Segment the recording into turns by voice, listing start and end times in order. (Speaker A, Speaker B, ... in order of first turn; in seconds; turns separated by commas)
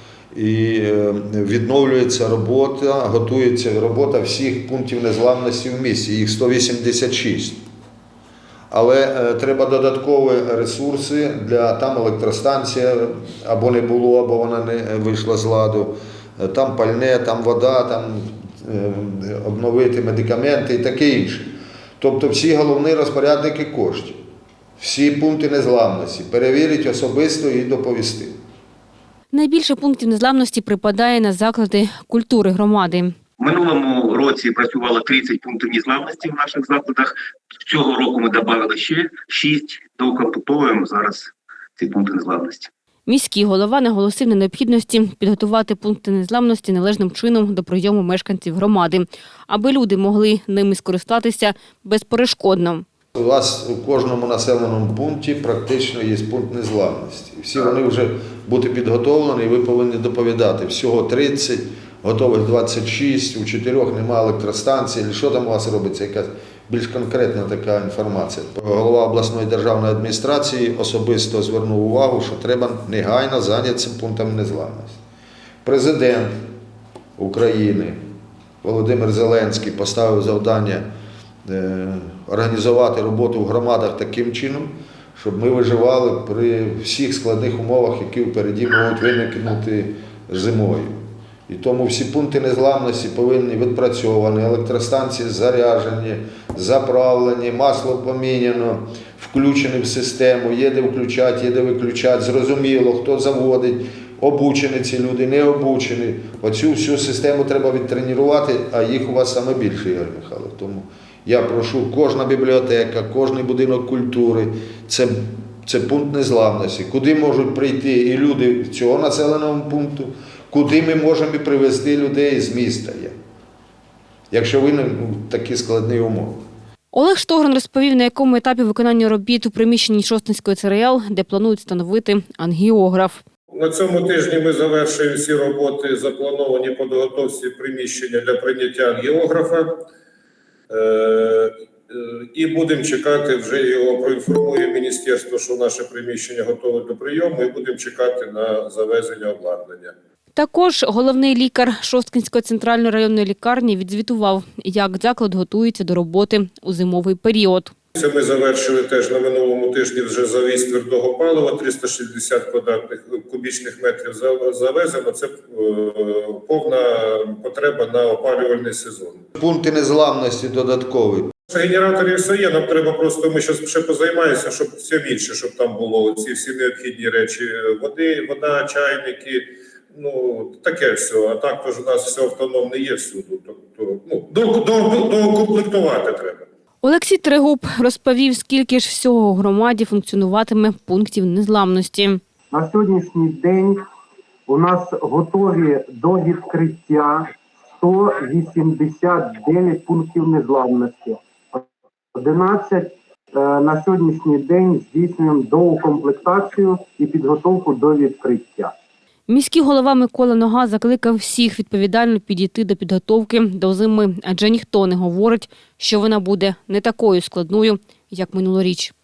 Speaker A: 0.3-7.6, Speaker A: 8.7-24.2, Speaker A: 24.8-28.3, Speaker B: 29.3-33.2, Speaker C: 33.4-42.7, Speaker B: 43.1-52.8, Speaker A: 53.1-75.0, Speaker A: 75.6-76.4, Speaker A: 77.2-78.0, Speaker A: 78.6-80.9, Speaker A: 81.4-91.0, Speaker A: 91.5-123.2, Speaker A: 124.3-126.4, Speaker B: 126.9-133.2, Speaker D: 133.5-139.8, Speaker D: 140.7-149.9, Speaker B: 150.3-157.7, Speaker D: 157.9-169.2, Speaker A: 169.4-171.3, Speaker D: 171.5-186.5, Speaker B: 186.8-192.2, Speaker E: 192.5-193.8, Speaker E: 194.5-208.7, Speaker B: 209.3-218.9